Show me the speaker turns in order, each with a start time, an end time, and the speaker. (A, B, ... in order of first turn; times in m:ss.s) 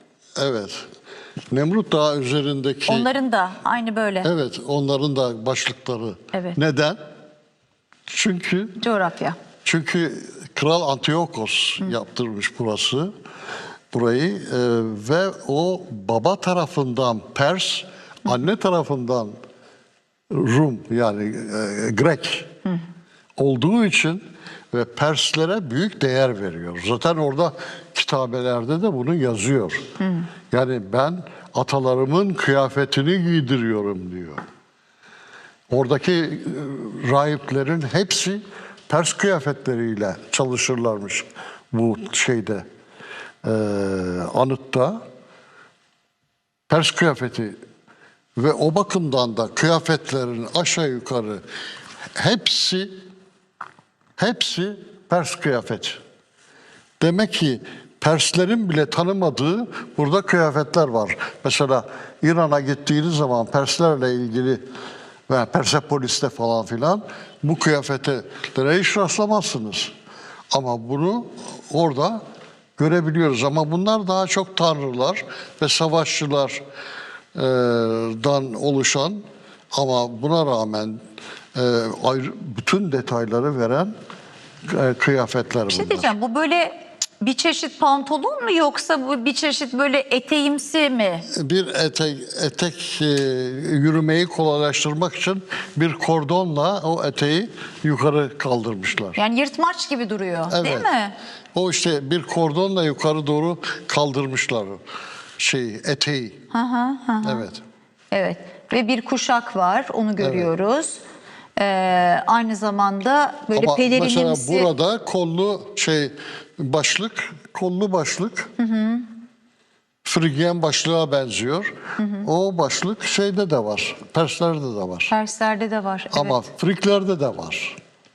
0:00.4-0:00.8 A
0:01.5-0:03.1 A
0:02.9-0:04.3 B
0:04.2-0:07.0 A
0:06.3-0:06.6 B
0:08.1-0:08.8 A
0:08.8-0:09.4 B
0:09.6-0:13.1 A
0:13.9-0:19.3 A
0:20.3-0:22.5 A
0:23.4-0:29.8 A
0:30.0-0:30.3 B
0:30.5-0:34.4 A
0:35.7-0:42.6 A
0:43.4-0:45.0 A
0:46.7-0:47.6 A
0:48.4-0:51.4 A
0:52.2-0:52.9 A
0:54.2-0:56.0 A
0:57.0-1:04.6 A
1:05.3-1:09.9 A
1:10.5-1:12.2 A
1:12.8-1:16.6 A
1:17.3-1:21.0 A
1:21.5-1:23.9 A
1:24.7-1:26.1 A
1:25.7-1:31.2 B
1:31.3-1:39.2 A
1:39.2-1:41.1 B
1:40.5-1:40.9 A
1:41.5-1:44.8 A
1:45.4-1:46.4 A
1:46.5-1:47.4 B
1:47.2-1:47.6 A
1:48.1-1:51.0 B
1:50.2-1:50.5 A
1:51.6-1:54.7 B
1:53.5-1:58.5 A
1:58.6-1:59.0 B
2:00.0-2:05.1 A
2:02.0-2:02.3 B
2:05.1-2:06.4 B
2:06.1-2:07.8 A